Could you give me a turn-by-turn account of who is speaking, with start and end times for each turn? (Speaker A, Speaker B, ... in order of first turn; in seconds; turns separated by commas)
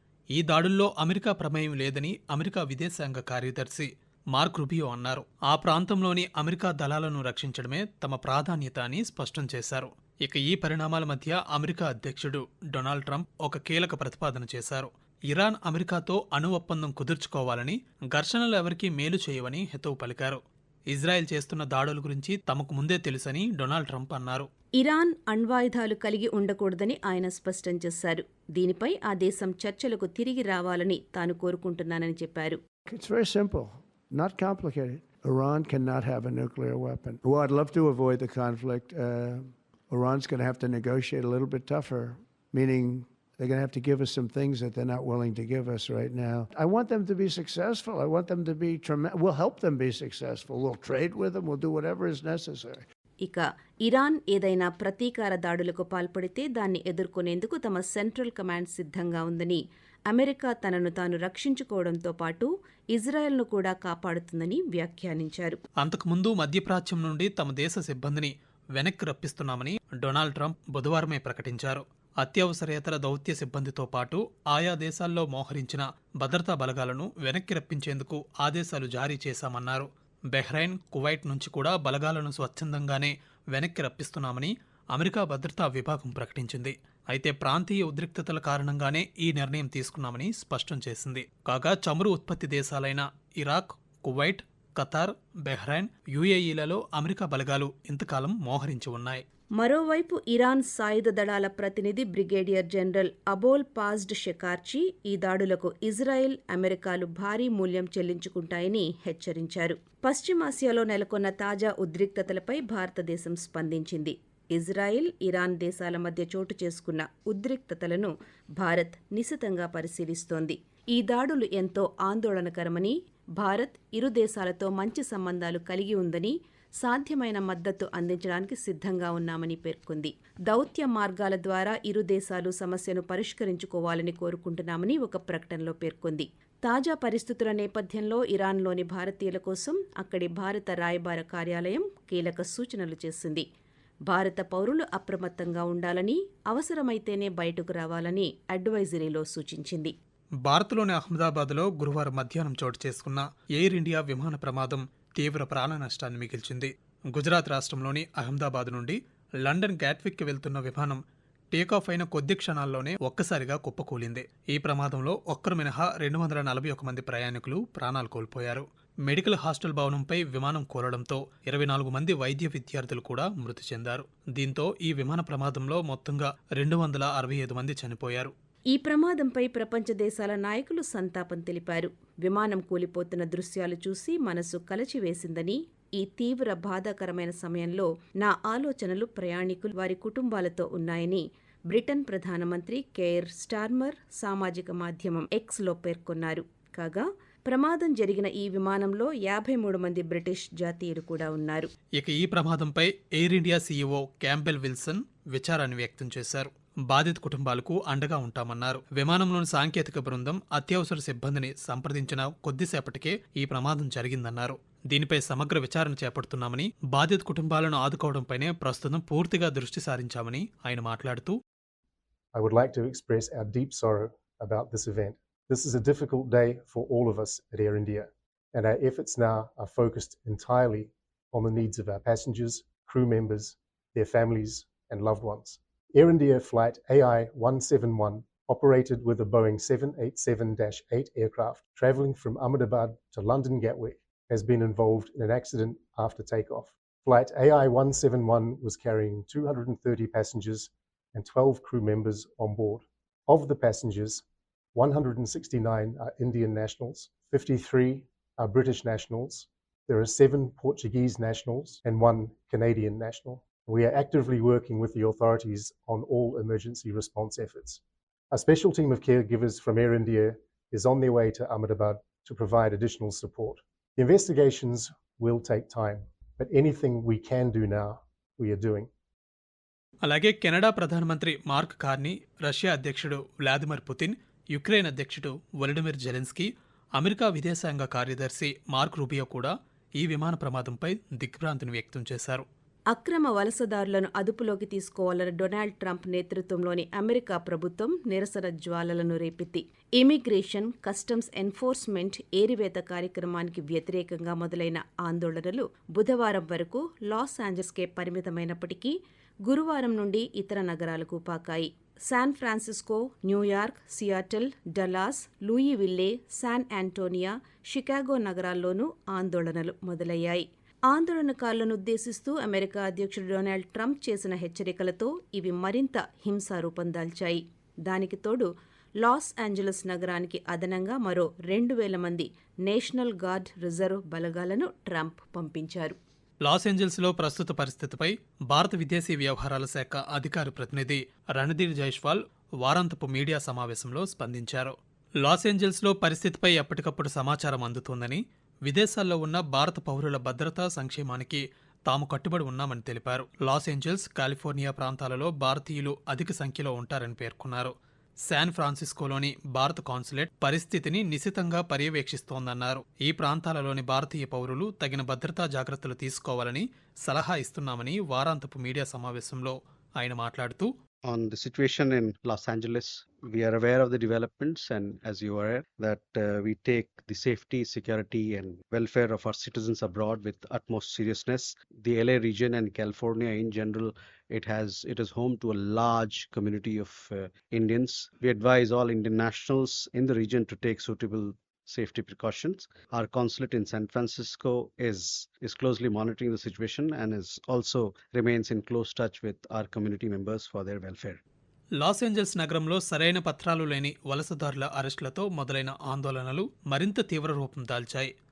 Speaker A: 0.3-24.5, Speaker B: 24.8-32.6, Speaker C: 32.9-52.8, Speaker B: 53.2-65.6, Speaker A: 65.8-99.2, Speaker B: 99.6-143.4, Speaker B: 144.1-149.9, Speaker A: 150.4-161.0, Speaker A: 161.5-178.3, Speaker B: 178.7-201.7, Speaker A: 202.0-221.3, Speaker D: 222.3-254.2, Speaker D: 254.7-267.8, Speaker D: 268.3-278.9, Speaker A: 280.0-292.4, Speaker B: 292.9-328.5, Speaker B: 329.0-336.0, Speaker A: 336.4-357.7, Speaker A: 358.3-370.7, Speaker E: 371.0-401.2, Speaker A: 401.8-408.1